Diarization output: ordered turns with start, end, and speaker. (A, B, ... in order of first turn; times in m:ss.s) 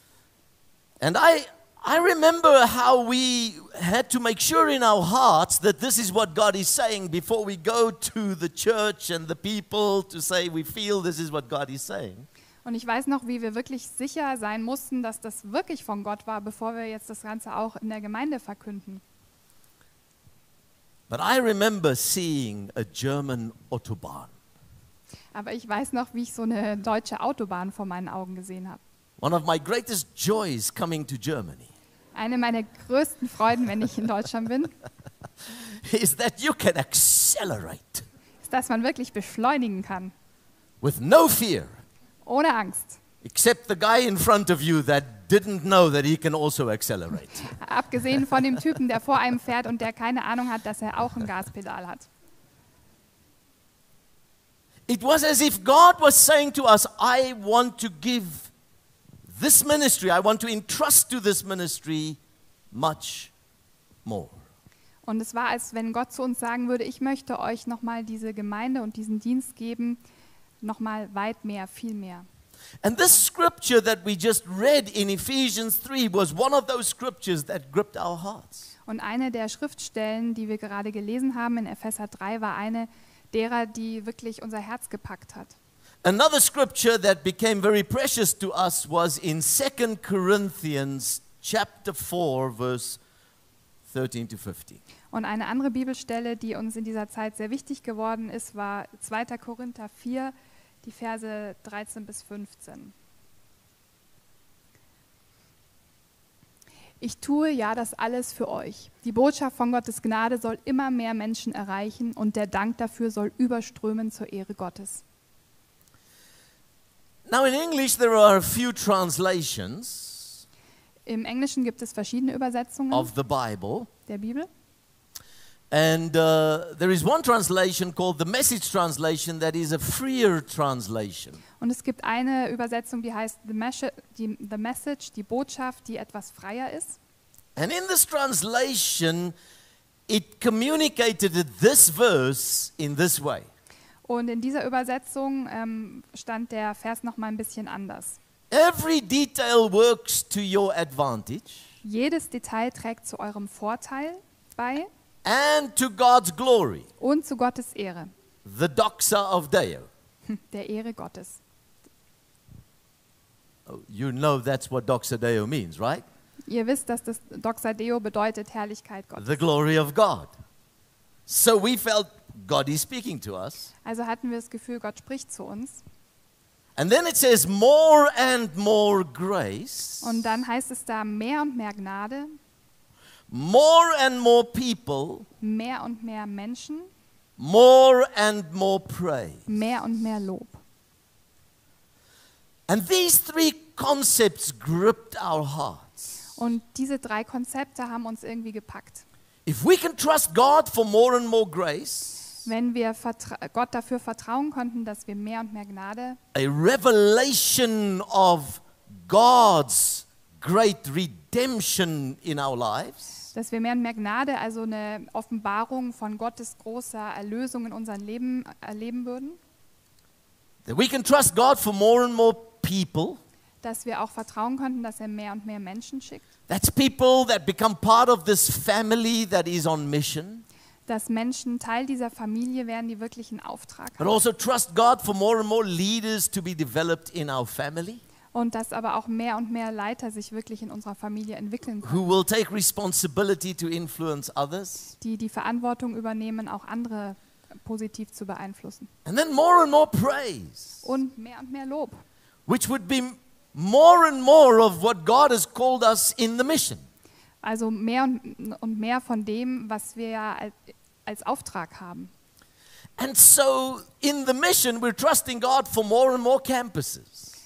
0:01.0-0:12.3 A
0:12.6-0:19.0 B
0:21.1-0:24.3 A
0:25.3-0:28.8 B
0:29.2-0:31.7 A
0:32.2-0:34.7 B
0:35.5-0:38.0 A
0:38.4-0:40.1 B
0:40.8-0:41.8 A
0:42.2-0:43.0 B
0:43.2-0:47.5 A
0:47.6-0:52.1 B
0:54.9-0:58.5 A
0:59.3-1:02.2 A
1:02.7-1:03.3 A
1:04.0-1:04.4 A
1:05.0-1:10.0 B
1:10.6-1:12.3 B
1:12.8-1:18.7 A
1:18.9-1:25.6 B
1:26.0-1:33.0 A
1:33.9-1:34.8 A
1:35.1-1:42.9 B
1:47.0-1:55.0 B
1:57.3-2:00.4 A
2:01.1-2:03.1 B
2:02.9-2:03.9 A
2:04.1-2:04.5 B
2:05.7-2:11.4 A
2:11.6-2:17.0 B
2:17.6-2:19.3 A
2:20.1-2:23.5 A
2:24.1-2:28.2 B
2:28.5-2:31.7 A
2:31.8-2:34.9 B
2:35.2-2:36.9 A
2:37.0-2:38.1 B
2:38.4-2:39.9 A
2:40.3-2:41.4 B
2:43.7-2:46.0 A
2:46.5-2:49.4 B
2:49.2-2:50.3 A
2:51.3-2:53.7 A
2:53.8-2:55.8 B
2:56.8-3:00.2 A
3:00.0-3:02.3 B
3:03.3-3:05.3 A
3:05.4-3:06.9 B
3:07.4-3:09.4 A
3:09.5-3:10.6 B
3:12.7-3:15.9 A
3:16.4-3:19.0 B
3:19.5-3:22.3 A
3:22.4-3:26.2 B
3:26.3-3:33.1 A
3:33.3-3:39.4 B
3:40.6-3:43.2 A
3:43.6-3:46.3 B
3:46.5-3:50.4 A
3:50.9-3:54.1 B
3:54.0-3:58.0 A
3:58.3-4:02.0 B
4:01.8-4:04.9 A
4:05.0-4:08.9 B
4:09.0-4:10.8 A
4:10.8-4:12.0 B
4:12.5-4:16.8 A
4:17.4-4:22.1 B
4:23.0-4:27.3 A